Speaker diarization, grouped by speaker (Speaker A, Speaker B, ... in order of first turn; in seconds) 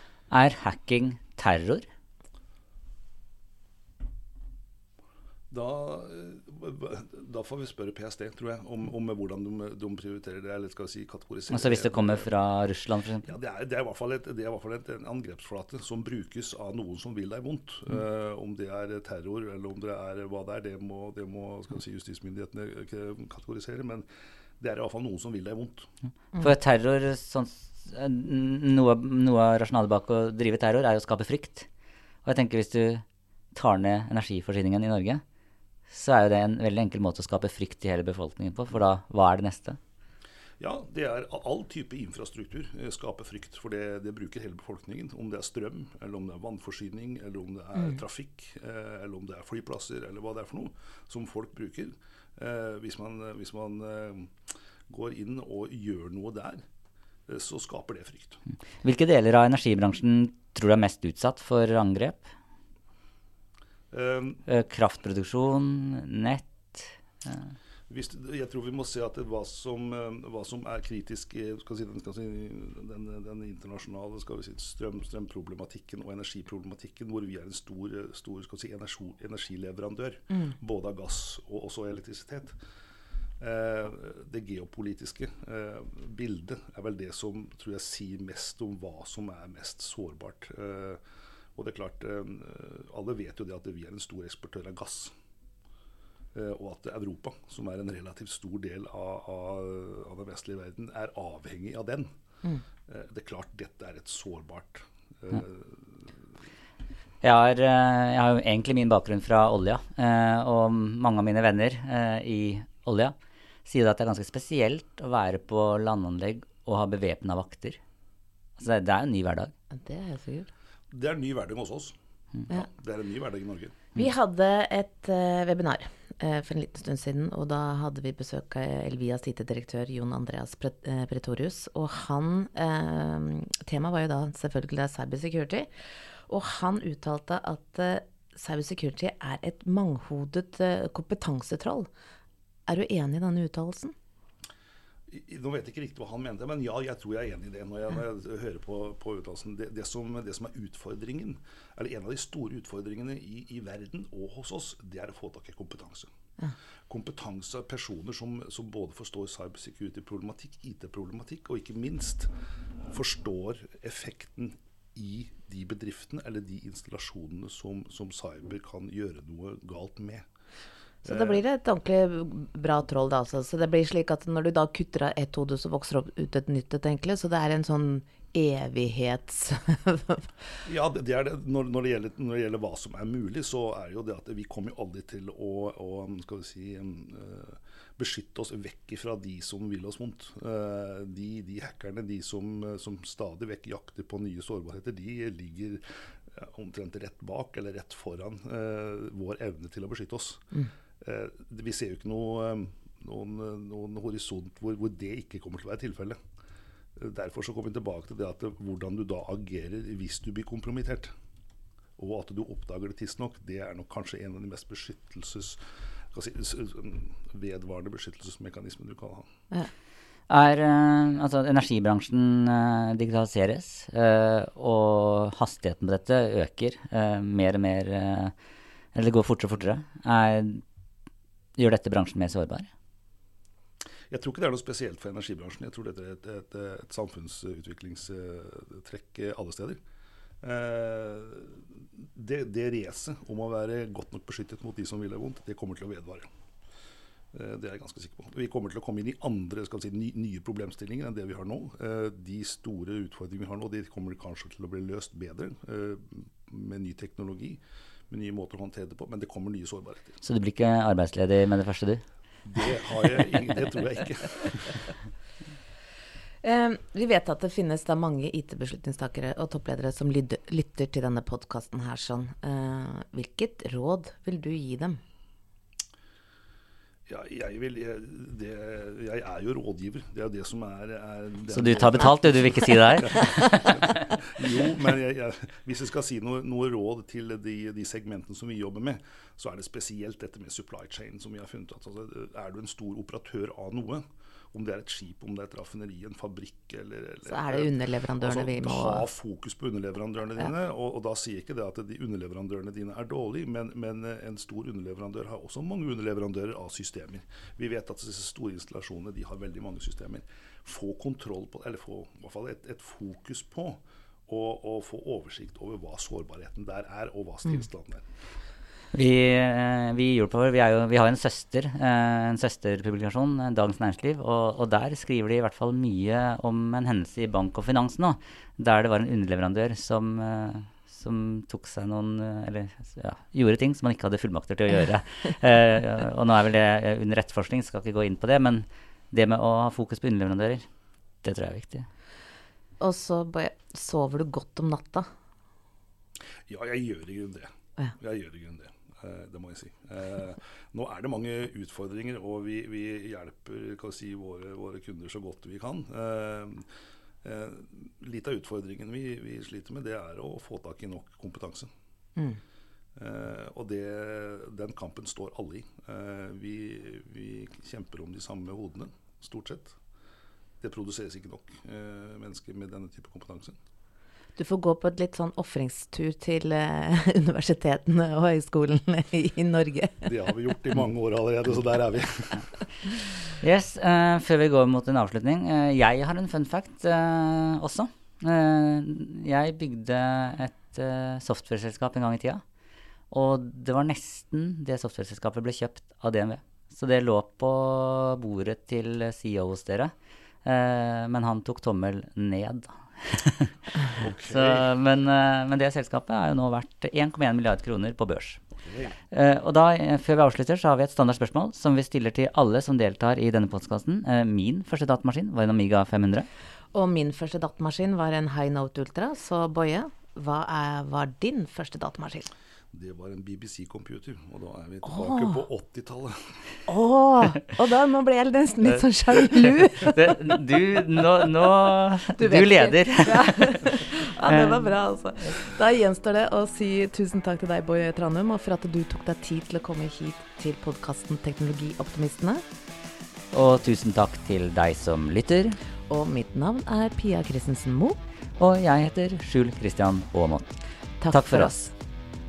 Speaker A: 0.3-1.9, 11.5-13.3, 26.4-31.7, 32.2-35.2, 35.9-39.8, 58.8-62.3, 64.5-67.5, 107.2-117.8, 118.6-119.5, 220.3-228.3, 228.9-230.6, 231.6-232.7, 260.2-262.0, 281.5-284.0, 318.9-340.7, 341.2-341.9, 383.4-392.4, 393.1-399.9, 400.4-408.4, 409.1-416.3, 429.8-434.7, 443.3-445.6, 448.4-450.5, 451.1-451.7
Speaker B: 5.5-12.3, 13.2-24.1, 24.6-25.9, 40.6-54.3, 54.9-56.6, 57.3-58.4, 63.9-64.4, 67.9-82.6, 83.4-91.0, 91.6-95.1, 96.3-102.1, 102.9-106.1, 120.9-122.0, 122.5-123.8, 145.1-156.1, 156.9-162.3, 162.9-170.3, 171.0-171.4, 180.7-206.2, 207.0-211.1, 212.0-215.6, 216.1-219.3, 234.1-239.8, 240.4-246.3, 247.3-260.2, 262.4-264.9, 277.1-318.1, 346.5-356.7, 357.2-361.7, 363.0-369.8, 370.6-373.6, 380.0-382.5, 403.9-404.7, 408.6-409.0, 422.7-426.3
Speaker C: 119.7-120.5, 124.0-135.7, 136.3-141.9, 142.7-143.9, 171.1-180.3, 266.4-275.0, 297.2-299.1, 342.8-345.1, 374.4-380.1, 416.7-422.3, 424.9-425.4, 426.7-430.4, 432.2-442.4, 445.9-448.0, 451.0-451.7